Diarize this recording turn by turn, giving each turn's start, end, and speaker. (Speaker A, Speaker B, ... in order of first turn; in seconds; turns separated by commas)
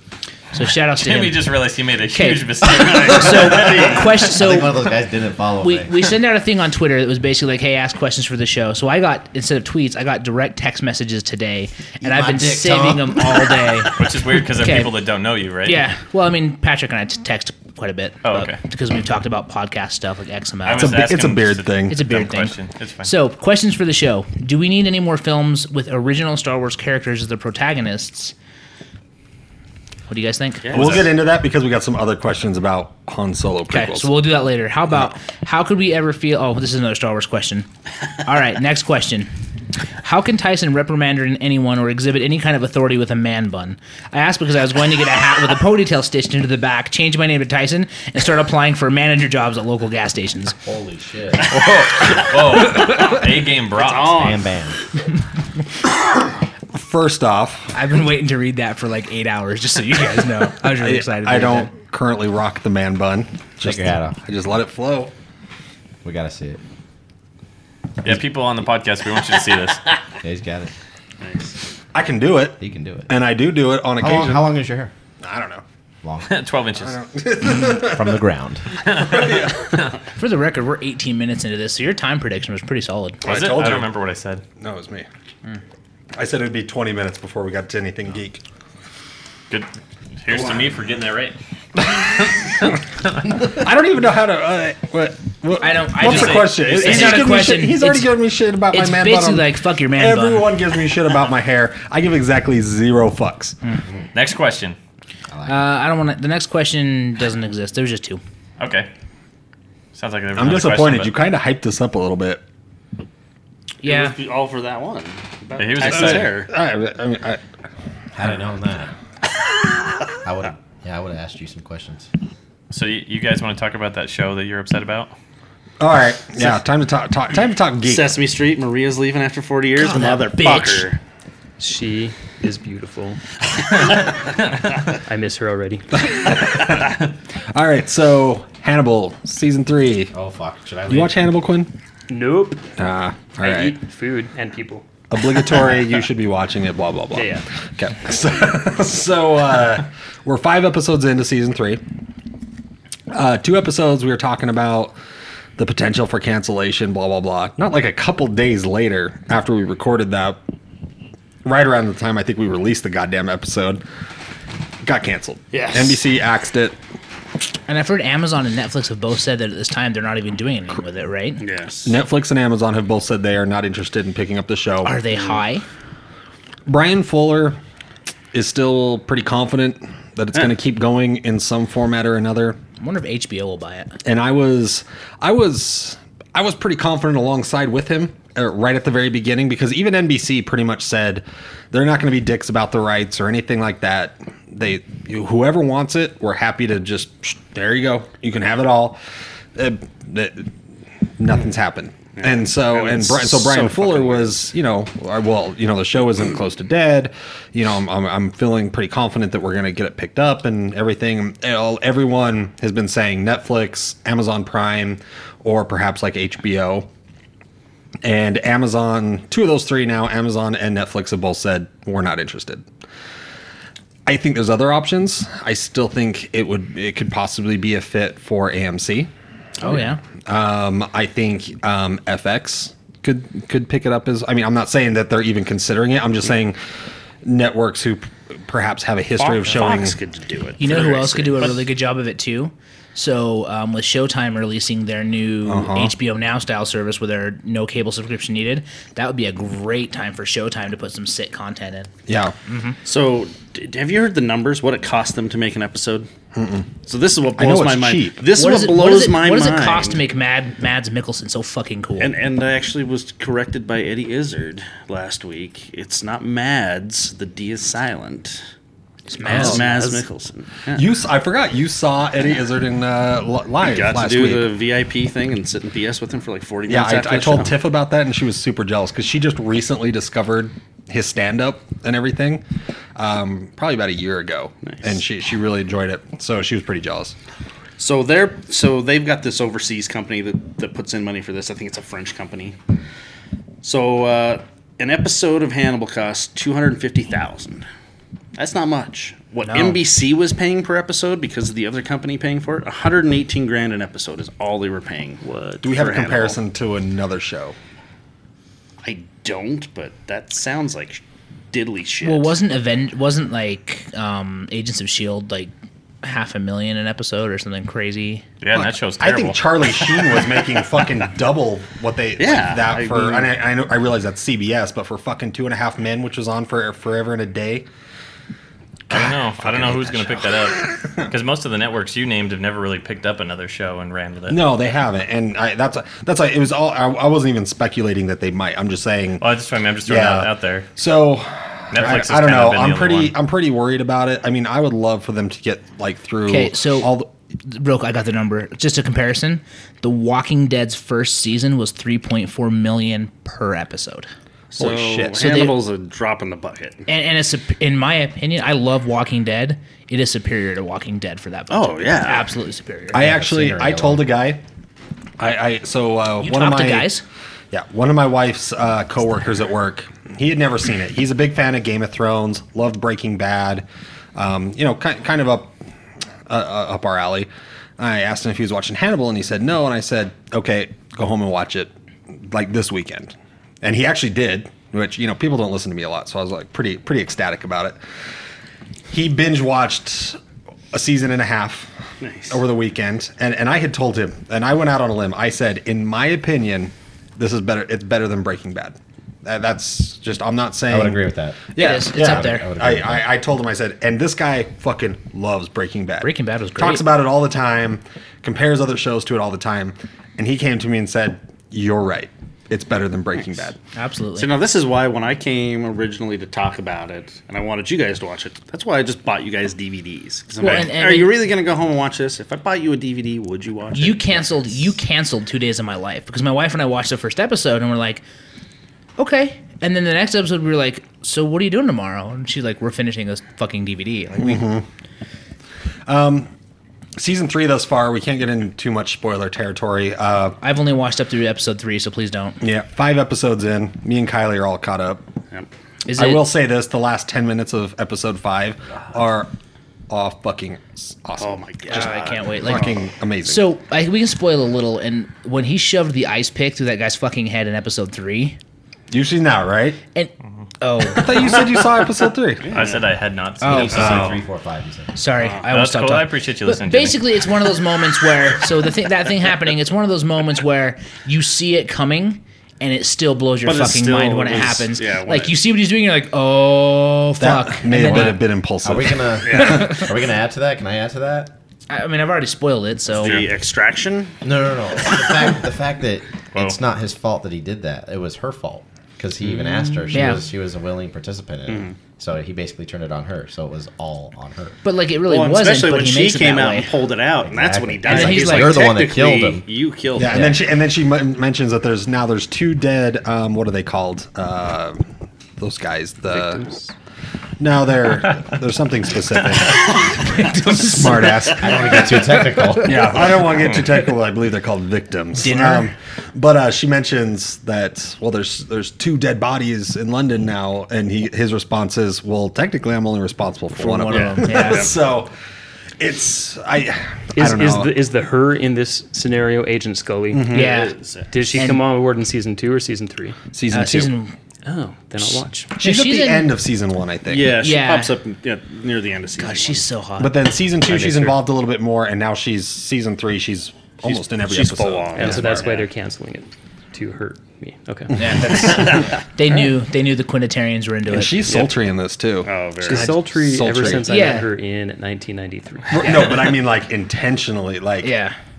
Speaker A: 0.5-1.5, Speaker B: 1.0-4.3, Speaker A: 2.1-4.8, Speaker C: 2.8-4.0, Speaker D: 4.1-6.0, Speaker A: 5.6-14.0, Speaker D: 12.0-13.9, Speaker B: 14.0-15.8, Speaker A: 14.6-15.0, Speaker A: 15.7-21.0, Speaker B: 18.2-18.6, Speaker B: 20.6-23.1, Speaker E: 20.7-22.1, Speaker A: 21.9-28.3, Speaker A: 30.1-30.9, Speaker C: 30.7-31.1, Speaker B: 30.7-31.1, Speaker E: 30.7-34.1, Speaker A: 33.7-37.7, Speaker A: 38.2-39.3, Speaker A: 40.0-50.6, Speaker D: 50.6-51.5, Speaker B: 51.4-54.3, Speaker C: 53.8-54.4, Speaker D: 54.1-54.8, Speaker E: 56.7-57.7, Speaker A: 57.7-61.7, Speaker E: 60.8-65.1, Speaker D: 63.6-64.2, Speaker D: 66.0-66.6, Speaker B: 68.0-69.8, Speaker D: 70.2-70.7, Speaker C: 71.2-71.5, Speaker E: 71.9-74.5, Speaker D: 72.6-73.1, Speaker D: 74.0-74.9, Speaker E: 75.2-75.6, Speaker D: 76.0-76.4, Speaker B: 76.2-77.0, Speaker E: 76.8-78.2, Speaker D: 77.4-78.7, Speaker B: 78.9-79.9, Speaker E: 79.0-79.8, Speaker A: 80.2-83.2, Speaker E: 83.2-83.9, Speaker B: 83.2-84.4, Speaker E: 84.6-85.1, Speaker E: 86.2-88.4, Speaker B: 90.2-91.4, Speaker E: 91.8-92.6, Speaker E: 93.3-103.6, Speaker A: 95.6-98.2, Speaker B: 96.0-97.5, Speaker A: 98.7-100.5, Speaker B: 104.1-104.8, Speaker D: 105.3-105.7, Speaker A: 105.5-108.2, Speaker B: 108.6-108.9, Speaker B: 110.0-111.1, Speaker E: 110.4-112.4, Speaker C: 113.8-116.5, Speaker A: 113.8-114.2, Speaker B: 115.6-116.3, Speaker E: 115.9-117.4, Speaker D: 118.1-118.9, Speaker D: 120.2-122.1, Speaker B: 122.7-125.1, Speaker E: 125.8-128.2, Speaker C: 127.8-131.0, Speaker A: 129.8-130.9, Speaker F: 131.6-133.2, Speaker F: 135.0-136.0, Speaker E: 136.0-137.0, Speaker E: 137.5-140.1, Speaker D: 140.1-141.2, Speaker E: 140.9-141.7, Speaker F: 142.1-142.7, Speaker E: 142.8-143.8, Speaker F: 143.4-144.8, Speaker E: 145.1-151.8, Speaker F: 147.1-147.4, Speaker E: 153.1-155.0, Speaker E: 155.6-160.4, Speaker E: 161.4-163.8, Speaker E: 164.8-166.8, Speaker C: 165.5-166.0, Speaker A: 167.7-171.4, Speaker C: 171.4-172.0, Speaker E: 171.8-175.0, Speaker A: 174.8-175.7, Speaker E: 176.7-177.6, Speaker E: 178.3-182.6, Speaker A: 182.8-183.9, Speaker E: 184.1-199.0, Speaker E: 199.6-200.5, Speaker E: 201.2-216.9, Speaker C: 202.2-204.4, Speaker E: 218.0-222.7, Speaker E: 224.1-229.1, Speaker A: 229.6-230.0, Speaker E: 229.7-236.6, Speaker E: 237.2-240.0, Speaker C: 239.2-241.6, Speaker A: 240.6-251.9, Speaker E: 245.4-245.9, Speaker E: 252.1-252.3, Speaker A: 252.5-252.8, Speaker C: 252.8-256.1, Speaker E: 256.4-256.7, Speaker C: 256.9-260.0, Speaker E: 257.4-258.2, Speaker A: 258.3-262.2, Speaker C: 262.0-268.4, Speaker A: 269.1-270.0, Speaker C: 269.2-270.9, Speaker E: 269.3-269.6, Speaker E: 270.7-274.6, Speaker C: 273.6-277.6, Speaker E: 276.7-282.4, Speaker E: 283.0-287.1, Speaker C: 287.8-292.6, Speaker C: 293.6-297.6, Speaker C: 298.4-306.4, Speaker A: 299.4-299.8, Speaker F: 305.2-305.6, Speaker E: 305.6-307.6, Speaker C: 308.8-312.4, Speaker A: 312.0-318.2, Speaker B: 318.4-319.9, Speaker E: 318.5-327.7, Speaker C: 322.2-323.3, Speaker E: 328.9-331.1, Speaker B: 328.9-334.4, Speaker E: 334.3-339.3, Speaker B: 339.2-340.7, Speaker E: 339.9-347.1, Speaker B: 341.7-343.1, Speaker A: 346.3-346.9, Speaker A: 347.5-354.1, Speaker C: 354.5-356.9, Speaker E: 354.6-355.2, Speaker A: 355.1-355.6, Speaker A: 356.9-363.0, Speaker C: 361.5-362.3, Speaker E: 362.9-364.4, Speaker D: 362.9-364.1, Speaker E: 365.2-366.9, Speaker A: 366.2-367.0, Speaker E: 367.5-375.6, Speaker E: 376.3-381.7, Speaker E: 382.3-387.8, Speaker E: 388.9-390.2, Speaker E: 390.7-391.7, Speaker C: 392.0-392.4, Speaker E: 392.3-413.6, Speaker D: 400.7-403.1, Speaker A: 401.6-402.5, Speaker A: 406.0-406.9, Speaker A: 413.8-414.3, Speaker C: 414.2-424.3, Speaker A: 420.4-421.2, Speaker A: 423.7-428.0, Speaker A: 429.0-434.5, Speaker E: 434.2-434.7, Speaker E: 435.9-436.3, Speaker E: 437.0-440.4, Speaker A: 440.4-442.4, Speaker E: 442.4-445.1, Speaker A: 445.9-446.3, Speaker E: 446.0-449.3, Speaker E: 449.9-453.5, Speaker C: 451.2-452.8, Speaker A: 451.7-452.8, Speaker A: 453.3-458.4, Speaker E: 458.9-459.8, Speaker A: 459.9-461.3, Speaker E: 460.9-462.6, Speaker C: 462.4-462.9, Speaker B: 462.5-464.2, Speaker A: 463.4-464.1, Speaker D: 463.4-464.9, Speaker E: 463.6-464.2, Speaker A: 465.0-478.2, Speaker C: 465.2-465.5, Speaker B: 465.5-467.1, Speaker C: 473.4-475.4, Speaker E: 477.2-479.7, Speaker D: 478.6-481.3, Speaker C: 479.2-479.8, Speaker A: 479.4-479.8, Speaker A: 481.7-483.2, Speaker C: 482.9-484.2, Speaker D: 484.2-494.6, Speaker A: 489.9-490.2, Speaker C: 491.5-491.8, Speaker A: 494.6-496.8, Speaker C: 495.1-500.4, Speaker D: 497.2-500.4, Speaker A: 497.9-498.7, Speaker E: 500.0-504.8, Speaker E: 505.4-506.5, Speaker F: 506.1-506.7, Speaker E: 507.4-509.7, Speaker A: 509.8-513.0, Speaker E: 510.6-511.8, Speaker D: 511.3-513.1, Speaker E: 512.6-525.1, Speaker A: 515.2-515.7, Speaker A: 523.5-524.7, Speaker C: 523.9-524.8, Speaker E: 525.8-527.8, Speaker F: 527.2-530.5, Speaker E: 530.1-530.5, Speaker A: 530.3-530.7, Speaker C: 530.4-531.1, Speaker F: 531.1-533.2, Speaker A: 531.3-531.6, Speaker E: 533.3-533.9, Speaker A: 533.5-534.1, Speaker F: 534.5-535.5, Speaker E: 535.5-537.4, Speaker A: 535.6-536.3, Speaker C: 537.1-539.7, Speaker A: 537.4-538.0, Speaker A: 539.2-540.1, Speaker E: 540.0-545.5, Speaker C: 543.9-545.6, Speaker F: 545.0-548.4, Speaker A: 548.0-551.2, Speaker E: 548.0-548.9, Speaker C: 548.5-549.0, Speaker E: 550.9-553.9, Speaker F: 551.2-551.6, Speaker C: 552.2-553.0, Speaker F: 552.6-555.9, Speaker A: 553.8-554.3, Speaker E: 555.7-557.9, Speaker A: 555.8-556.1, Speaker A: 557.8-558.1